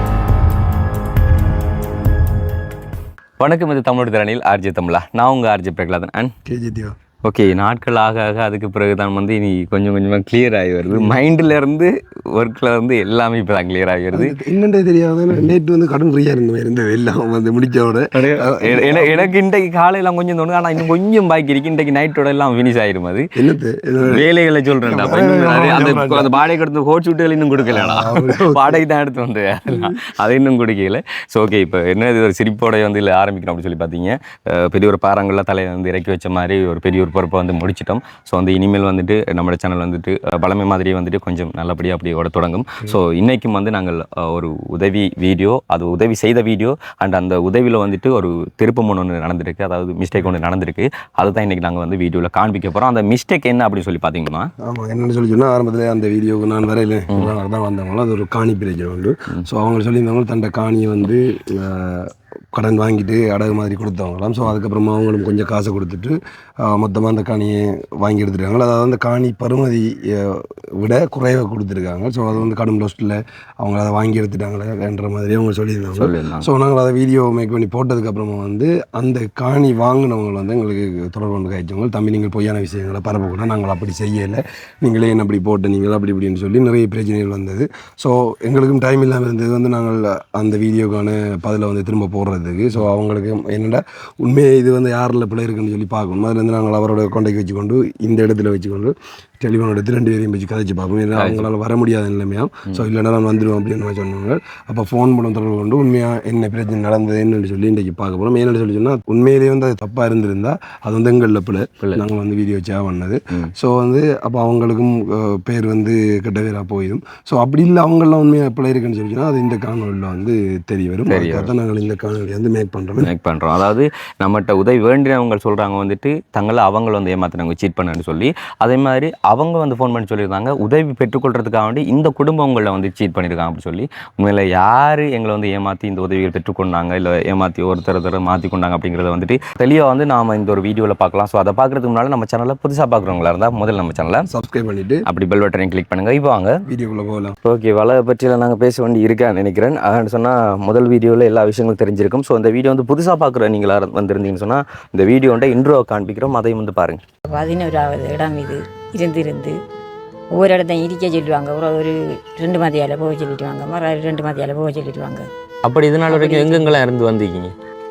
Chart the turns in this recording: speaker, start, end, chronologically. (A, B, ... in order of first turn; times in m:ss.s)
0:03.4-0:06.3 A
0:06.4-0:07.0 B
0:07.2-0:14.4 A
0:10.9-0:11.2 B
0:14.1-0:19.3 B
0:18.1-0:23.3 A
0:23.3-0:24.2 B
0:24.0-0:54.5 A
0:24.9-0:26.3 B
0:27.6-0:28.8 B
0:29.7-0:30.0 B
0:54.6-2:03.1 B
1:16.0-1:16.5 A
1:41.2-1:41.5 A
2:01.1-2:01.5 A
2:03.0-2:24.2 A
2:24.3-2:25.0 B
2:25.1-2:26.5 A
2:26.7-2:27.4 B
2:27.4-2:37.0 A
2:37.3-2:39.6 C
2:40.3-2:45.3 C
2:45.6-2:47.5 A
2:46.1-2:46.7 C